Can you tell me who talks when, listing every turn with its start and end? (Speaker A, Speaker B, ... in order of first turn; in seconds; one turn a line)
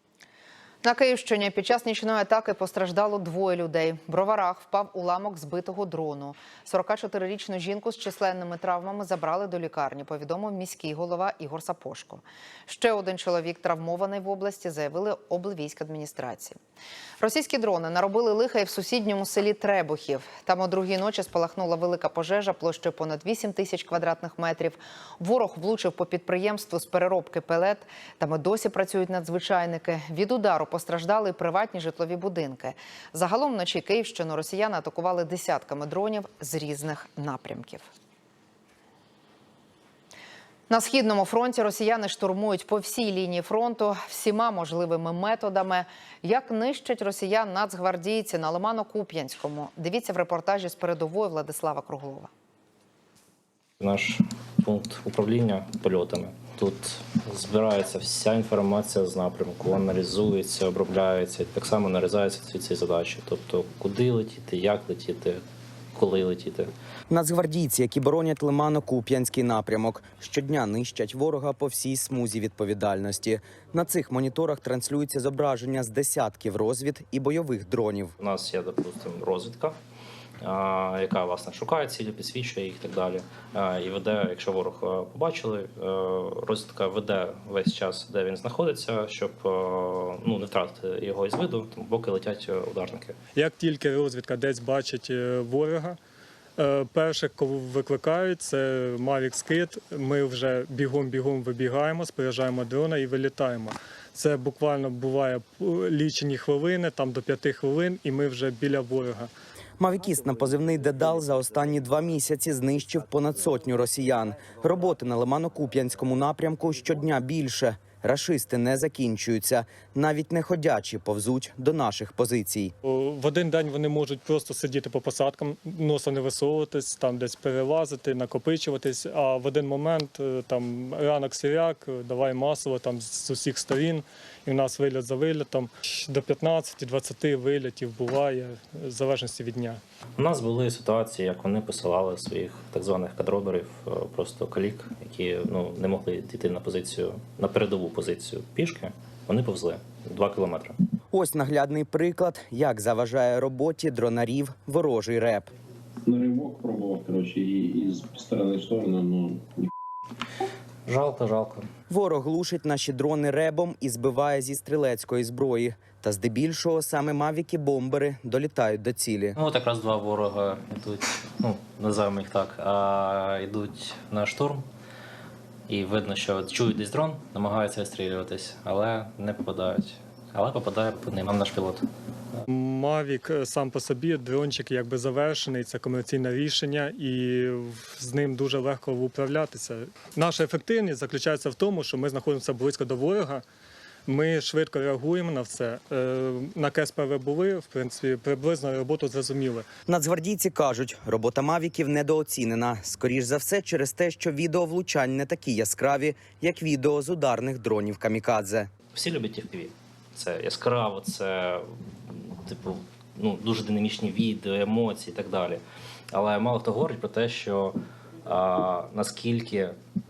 Speaker A: 0.8-16.6
Speaker A: 17.2-37.9
Speaker A: 40.7-52.3
Speaker B: 53.8-66.7
Speaker C: 67.1-78.2
Speaker B: 78.2-79.8
Speaker B: 80.4-93.2
Speaker D: 93.3-96.0
Speaker D: 96.6-109.3
Speaker C: 109.8-122.7
Speaker D: 122.8-139.8
Speaker B: 140.2-150.8
Speaker C: 151.1-155.5
Speaker E: 156.1-159.7
Speaker B: 160.9-161.7
Speaker C: 161.9-169.4
Speaker B: 169.4-174.7
Speaker B: 175.7-182.4
Speaker D: 182.5-193.4
Speaker D: 194.1-199.7
Speaker C: 199.9-208.7
Speaker B: 208.9-219.8